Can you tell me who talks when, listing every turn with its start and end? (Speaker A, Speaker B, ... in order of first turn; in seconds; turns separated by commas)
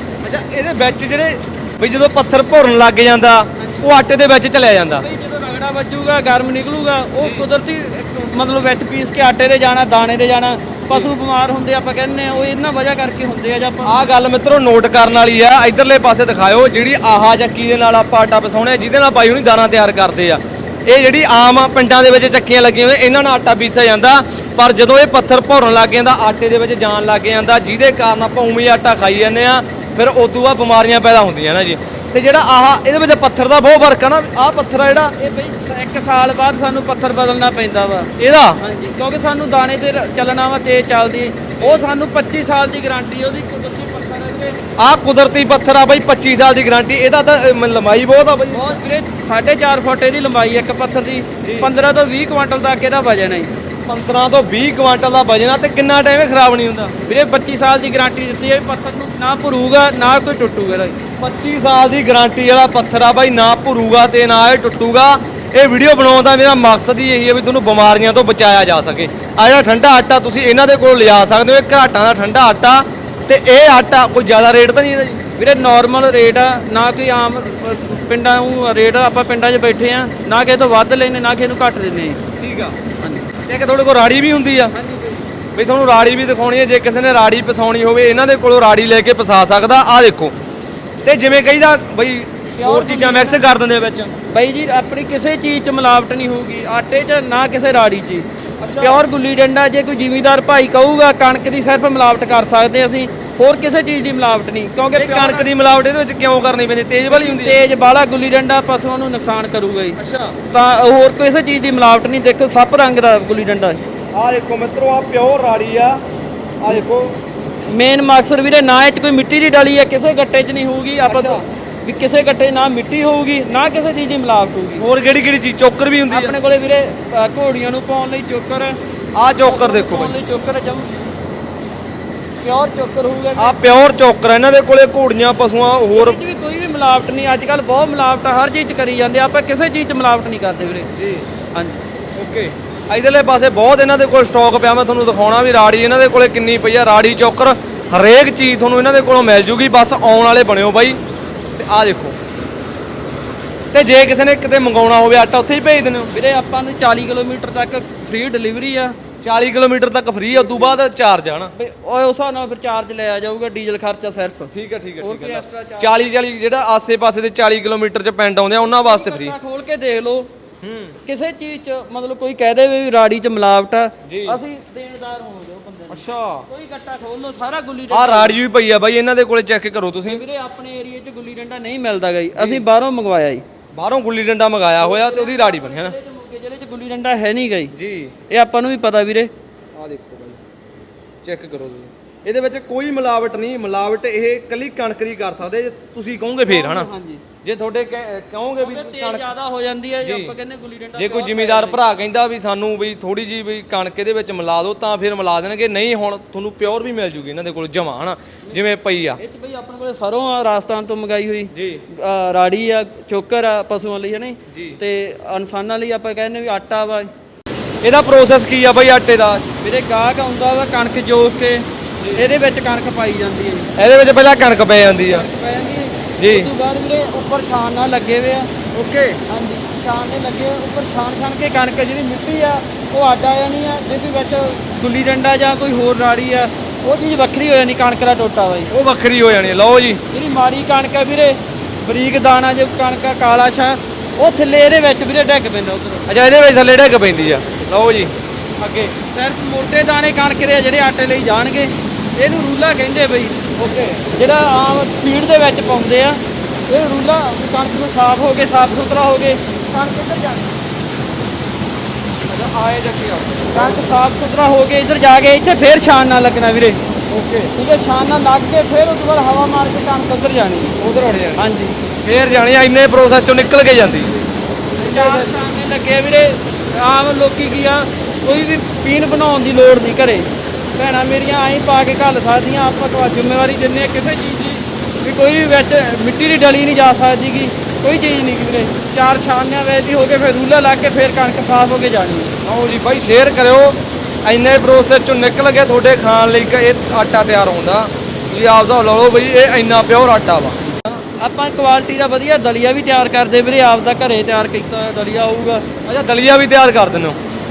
Speaker A: 0.2-5.0, Speaker B: 3.6-3.9, Speaker B: 5.0-13.9, Speaker A: 13.8-35.1, Speaker B: 35.2-44.6, Speaker A: 38.2-38.6, Speaker A: 41.6-41.8, Speaker A: 44.8-48.8, Speaker B: 48.5-53.5, Speaker A: 51.4-51.7, Speaker A: 53.9-56.9, Speaker B: 57.0-61.0, Speaker A: 61.2-75.2, Speaker B: 75.4-82.2, Speaker A: 82.4-82.8, Speaker B: 83.0-83.3, Speaker A: 83.5-84.7, Speaker B: 84.7-85.2, Speaker A: 85.5-90.3, Speaker A: 91.0-94.1, Speaker B: 92.6-93.4, Speaker B: 94.3-98.3, Speaker A: 98.6-99.0, Speaker B: 98.8-105.5, Speaker A: 104.9-107.6, Speaker B: 107.1-110.0, Speaker A: 110.0-110.4, Speaker B: 110.5-113.8, Speaker A: 114.1-116.0, Speaker A: 116.6-117.2, Speaker B: 117.7-124.8, Speaker A: 121.0-121.4, Speaker A: 124.8-126.3, Speaker B: 126.1-128.8, Speaker A: 129.2-130.1, Speaker B: 129.4-130.9, Speaker B: 132.4-133.6, Speaker A: 133.4-136.2, Speaker B: 135.9-140.9, Speaker A: 140.9-141.2, Speaker B: 141.5-141.8, Speaker A: 142.2-151.0, Speaker A: 151.6-152.2, Speaker A: 153.7-156.1, Speaker B: 156.1-159.0, Speaker A: 159.2-161.5, Speaker B: 160.3-160.8, Speaker B: 161.5-165.9, Speaker A: 164.5-169.3, Speaker B: 168.6-170.3, Speaker A: 170.6-171.0, Speaker B: 171.0-178.4, Speaker A: 174.1-174.4, Speaker A: 175.9-176.4, Speaker A: 177.9-180.2, Speaker B: 180.1-183.4, Speaker A: 182.3-182.6, Speaker A: 183.7-185.9, Speaker B: 184.8-187.7, Speaker A: 187.7-188.1, Speaker B: 188.3-189.3, Speaker A: 189.7-190.4, Speaker A: 191.2-196.9, Speaker B: 196.5-197.2, Speaker A: 197.4-199.3, Speaker B: 198.6-201.8, Speaker A: 200.0-200.3, Speaker A: 200.9-209.2, Speaker B: 208.5-217.1, Speaker A: 211.5-211.8, Speaker A: 214.5-214.8, Speaker A: 217.8-219.4, Speaker B: 219.6-223.7, Speaker A: 223.8-225.2, Speaker B: 225.0-228.5, Speaker A: 226.2-226.5, Speaker A: 228.7-229.2, Speaker B: 229.2-238.7, Speaker A: 238.7-240.0, Speaker B: 240.1-246.1, Speaker A: 246.1-248.1, Speaker B: 248.6-253.4, Speaker A: 253.6-254.1, Speaker B: 254.1-260.5, Speaker A: 262.3-263.8, Speaker B: 263.5-266.8, Speaker A: 267.1-267.5, Speaker B: 267.5-270.8, Speaker A: 270.8-271.4, Speaker B: 271.4-271.8, Speaker A: 272.0-274.2, Speaker A: 274.7-275.3, Speaker B: 274.8-292.3, Speaker A: 292.4-301.0, Speaker B: 301.2-305.6, Speaker A: 305.9-307.2